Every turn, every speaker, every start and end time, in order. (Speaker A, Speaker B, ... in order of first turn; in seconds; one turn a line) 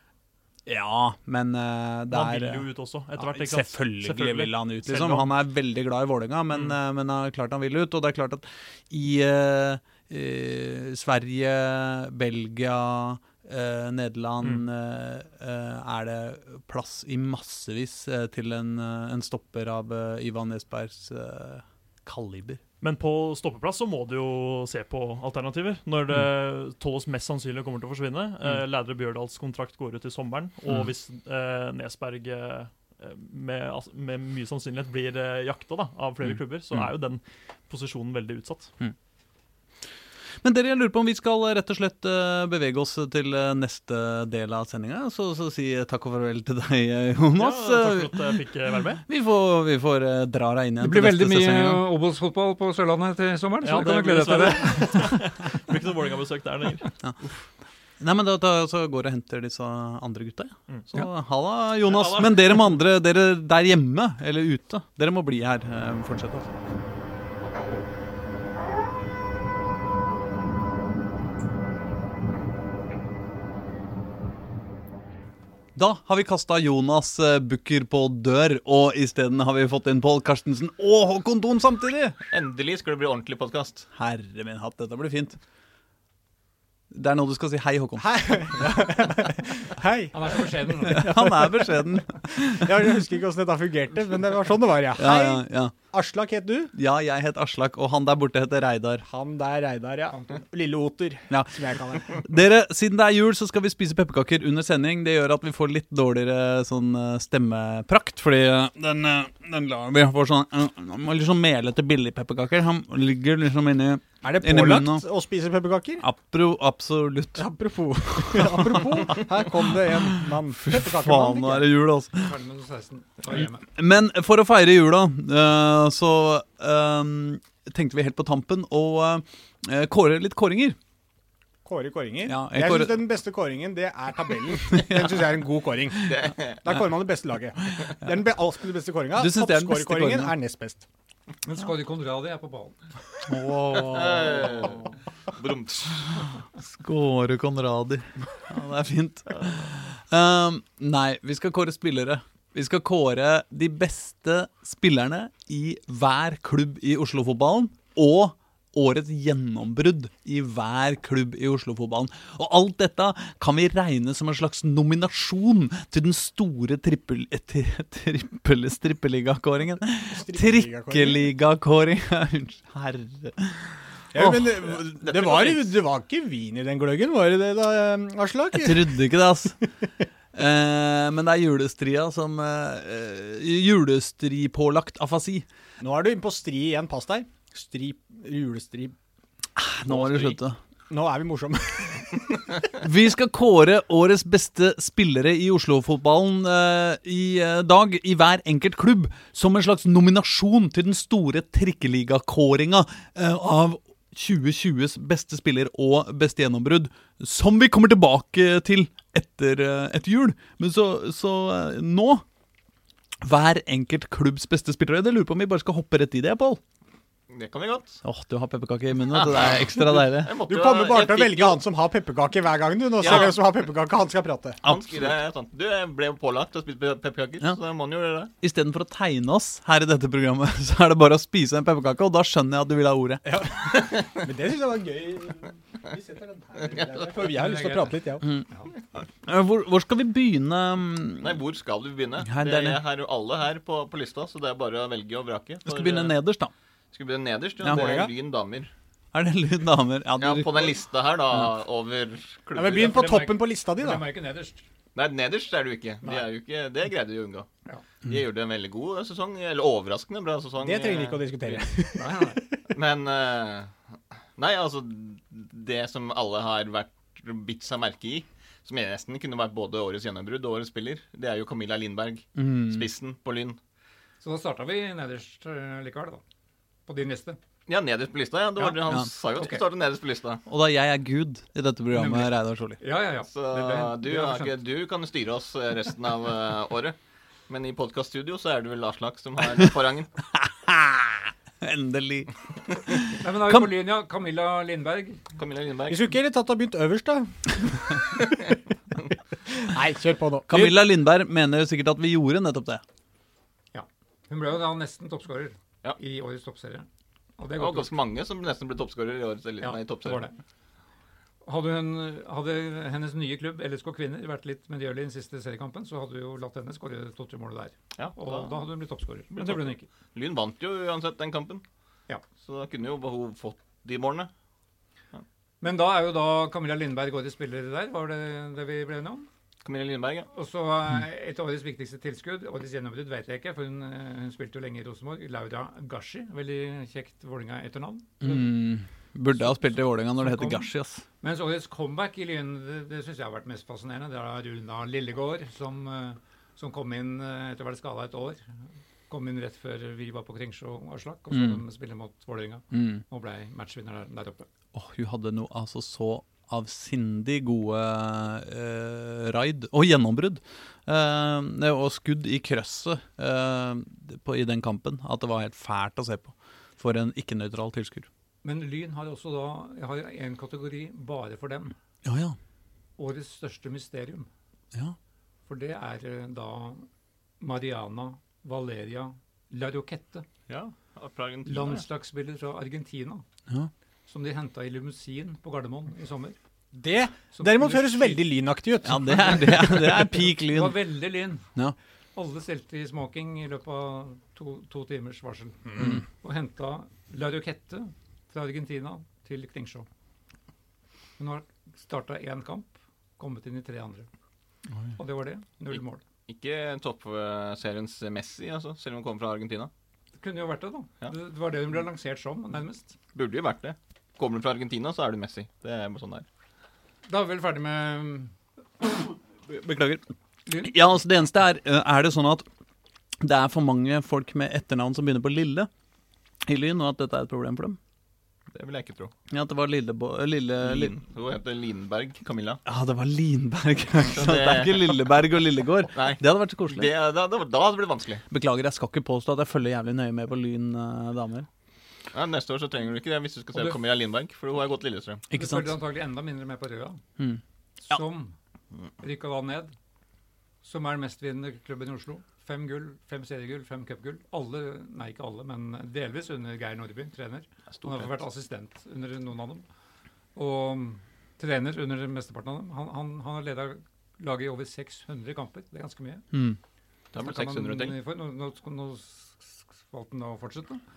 Speaker A: 0.7-2.7
Speaker B: 2.1-5.3
Speaker A: 3.2-22.6
Speaker B: 6.5-6.8
Speaker B: 22.8-38.7
Speaker A: 36.2-36.9
Speaker A: 40.4-48.2
Speaker B: 47.3-49.0
Speaker A: 49.0-51.8
Speaker C: 50.8-55.2
Speaker B: 53.6-57.3
Speaker A: 57.0-57.3
Speaker A: 58.0-66.5
Speaker B: 61.8-62.8
Speaker A: 75.7-82.2
Speaker D: 82.3-83.9
Speaker A: 83.9-85.4
Speaker A: 86.9-88.7
Speaker E: 88.0-96.7
Speaker C: 90.1-91.1
Speaker A: 90.9-93.0
Speaker A: 94.9-95.7
Speaker A: 96.7-99.0
Speaker E: 99.0-102.2
Speaker A: 101.3-115.0
Speaker E: 114.2-116.0
Speaker A: 116.0-117.5
Speaker E: 117.4-121.7
Speaker A: 118.2-122.3
Speaker C: 122.1-123.6
Speaker A: 123.3-130.8
Speaker E: 131.6-140.8
Speaker A: 132.2-133.0
Speaker A: 134.8-135.1
Speaker D: 136.0-136.7
Speaker A: 139.2-140.3
Speaker C: 141.4-142.8
Speaker D: 143.8-146.4
Speaker E: 143.9-144.4
Speaker A: 146.7-174.7
Speaker E: 170.1-171.2
Speaker E: 174.1-179.0
Speaker D: 175.0-175.7
Speaker A: 178.5-179.6
Speaker A: 180.3-185.4
Speaker E: 185.8-188.9
Speaker A: 189.6-190.6
Speaker D: 189.9-190.3
Speaker E: 190.9-192.5
Speaker A: 192.8-212.2
Speaker A: 213.2-216.6
Speaker D: 217.3-218.0
Speaker A: 218.0-220.3
Speaker D: 219.1-221.6
Speaker E: 220.4-224.6
Speaker D: 223.0-223.3
Speaker A: 223.0-223.3
Speaker D: 224.6-228.3
Speaker A: 224.6-225.1
Speaker A: 228.4-233.4
Speaker E: 233.2-238.3
Speaker D: 233.8-234.2
Speaker D: 236.6-237.2
Speaker C: 237.2-238.7
Speaker A: 239.2-241.4
Speaker D: 241.2-246.2
Speaker A: 242.2-242.8
Speaker A: 245.7-246.5
Speaker D: 246.9-248.7
Speaker A: 247.6-247.9
Speaker E: 247.7-248.1
Speaker A: 249.1-250.8
Speaker D: 250.2-253.1
Speaker E: 252.5-254.0
Speaker C: 252.7-254.7
Speaker D: 254.9-257.5
Speaker D: 258.1-261.6
Speaker E: 260.6-262.7
Speaker C: 261.9-262.4
Speaker D: 262.7-263.8
Speaker D: 264.4-273.6
Speaker A: 272.4-272.9
Speaker C: 274.2-276.2
Speaker C: 276.9-277.4
Speaker D: 277.7-280.4
Speaker C: 278.6-279.6
Speaker A: 280.5-282.8
Speaker C: 281.9-284.6
Speaker D: 283.3-286.9
Speaker D: 287.5-290.1
Speaker A: 290.3-293.7
Speaker C: 293.2-295.2
Speaker D: 295.4-296.0
Speaker E: 295.9-298.5
Speaker E: 299.4-300.8
Speaker A: 300.5-302.8
Speaker C: 303.7-306.9
Speaker C: 307.4-307.9
Speaker D: 307.6-310.3
Speaker C: 309.6-310.4
Speaker C: 311.4-319.9
Speaker D: 317.9-318.6
Speaker D: 319.3-321.6
Speaker D: 322.4-324.3
Speaker C: 325.6-329.3
Speaker D: 329.6-330.3
Speaker C: 330.3-338.6
Speaker A: 338.2-341.0
Speaker C: 339.3-340.7
Speaker C: 341.2-354.5
Speaker A: 351.3-351.6
Speaker A: 352.7-353.0
Speaker A: 354.7-368.1
Speaker C: 368.4-371.7
Speaker A: 372.0-372.4
Speaker C: 373.0-374.3
Speaker C: 375.5-376.9
Speaker C: 377.4-380.3
Speaker D: 380.5-381.8
Speaker C: 381.4-383.2
Speaker C: 384.1-386.4
Speaker E: 386.7-389.8
Speaker C: 387.3-388.2
Speaker A: 388.8-390.8
Speaker C: 389.1-391.5
Speaker C: 392.1-399.9
Speaker A: 395.8-396.0
Speaker C: 401.2-404.1
Speaker C: 404.9-406.0
Speaker D: 405.7-409.7
Speaker C: 410.2-412.9
Speaker D: 413.1-416.2
Speaker C: 417.1-418.8
Speaker A: 419.5-420.0
Speaker C: 420.5-420.7
Speaker A: 420.6-422.4
Speaker A: 423.2-425.7
Speaker A: 426.4-427.8
Speaker D: 428.5-429.1
Speaker A: 429.3-430.9
Speaker D: 430.6-432.6
Speaker A: 432.6-436.9
Speaker D: 434.1-434.9
Speaker D: 435.9-438.2
Speaker A: 438.3-441.5
Speaker D: 442.1-445.2
Speaker C: 443.5-443.8
Speaker A: 445.3-445.7
Speaker C: 445.3-447.0
Speaker A: 447.2-448.0
Speaker C: 447.8-448.4
Speaker C: 449.0-449.7
Speaker C: 450.6-459.6
Speaker D: 457.7-458.1
Speaker C: 460.3-466.3
Speaker A: 466.3-466.6
Speaker D: 467.1-468.0
Speaker C: 467.1-470.8